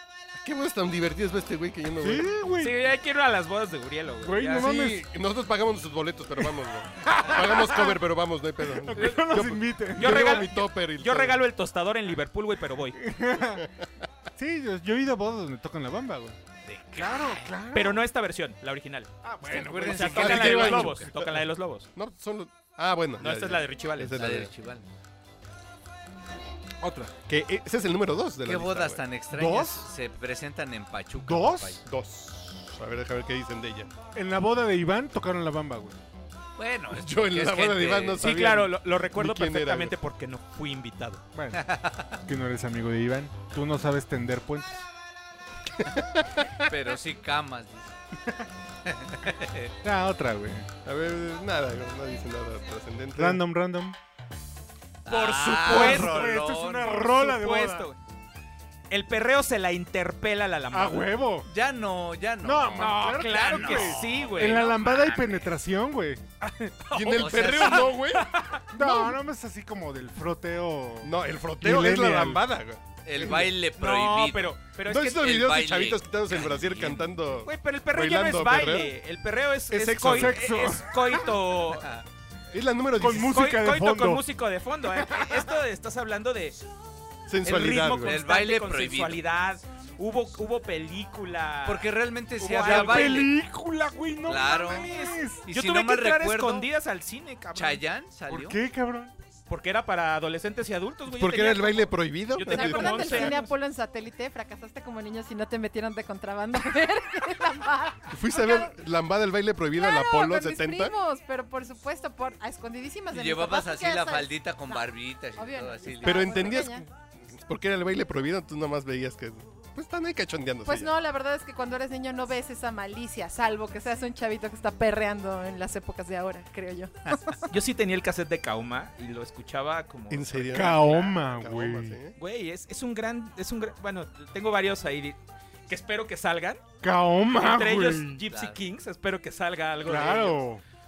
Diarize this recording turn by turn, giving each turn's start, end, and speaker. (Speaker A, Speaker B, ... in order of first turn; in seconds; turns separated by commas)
Speaker A: 0.4-2.3, Speaker B: 2.0-2.8, Speaker C: 2.6-4.7, Speaker B: 4.2-5.0, Speaker A: 4.5-11.4, Speaker B: 7.0-8.0, Speaker B: 8.8-10.5, Speaker C: 9.0-9.3, Speaker C: 10.0-13.0, Speaker B: 13.0-13.7, Speaker B: 14.4-16.4, Speaker D: 16.7-17.5, Speaker B: 16.9-18.0, Speaker C: 17.7-19.2, Speaker B: 19.2-20.7, Speaker D: 19.4-21.0, Speaker A: 19.8-21.4, Speaker C: 19.8-21.9, Speaker A: 21.9-24.5, Speaker C: 23.2-24.2, Speaker D: 24.2-24.9, Speaker B: 26.8-27.1, Speaker A: 27.3-29.0, Speaker D: 28.4-31.8, Speaker B: 29.3-29.9, Speaker B: 31.3-31.8, Speaker A: 31.9-33.9, Speaker B: 34.1-36.0, Speaker D: 36.6-38.2, Speaker A: 36.9-40.0, Speaker C: 38.2-41.2, Speaker B: 41.4-44.9, Speaker D: 41.5-42.2, Speaker D: 46.7-47.9, Speaker D: 48.9-49.7, Speaker B: 49.8-50.7, Speaker A: 50.9-53.4, Speaker B: 53.2-54.0, Speaker D: 55.0-56.9, Speaker C: 55.1-58.0, Speaker B: 55.6-57.9, Speaker C: 58.9-61.1, Speaker B: 60.7-61.5, Speaker D: 61.5-65.5, Speaker B: 62.4-66.2, Speaker C: 62.8-65.0, Speaker C: 66.4-68.6, Speaker A: 66.9-68.3, Speaker D: 67.2-68.0, Speaker B: 68.7-72.4, Speaker E: 68.8-69.1, Speaker A: 71.0-73.5, Speaker D: 73.0-74.5, Speaker C: 73.8-75.4, Speaker A: 74.9-78.9, Speaker D: 75.2-77.0, Speaker C: 77.4-81.9, Speaker A: 79.7-80.4, Speaker B: 80.1-81.3, Speaker A: 82.5-83.4, Speaker B: 83.0-84.2, Speaker C: 83.1-86.6, Speaker A: 87.3-88.2, Speaker C: 87.4-93.3, Speaker D: 88.0-89.2, Speaker D: 91.7-93.3, Speaker B: 92.6-95.5, Speaker D: 94.3-96.7, Speaker C: 94.3-97.8, Speaker D: 97.5-98.6, Speaker B: 98.3-99.1, Speaker C: 99.5-103.5, Speaker A: 101.1-103.3, Speaker E: 102.5-108.8, Speaker A: 108.1-111.0, Speaker E: 109.8-116.8, Speaker D: 113.1-116.5, Speaker A: 116.0-120.9, Speaker E: 120.7-127.5, Speaker C: 127.5-131.2, Speaker A: 130.1-132.2, Speaker B: 130.5-132.0, Speaker C: 132.2-136.6, Speaker B: 136.8-138.2, Speaker C: 137.3-140.4, Speaker D: 138.3-138.6, Speaker B: 139.8-140.6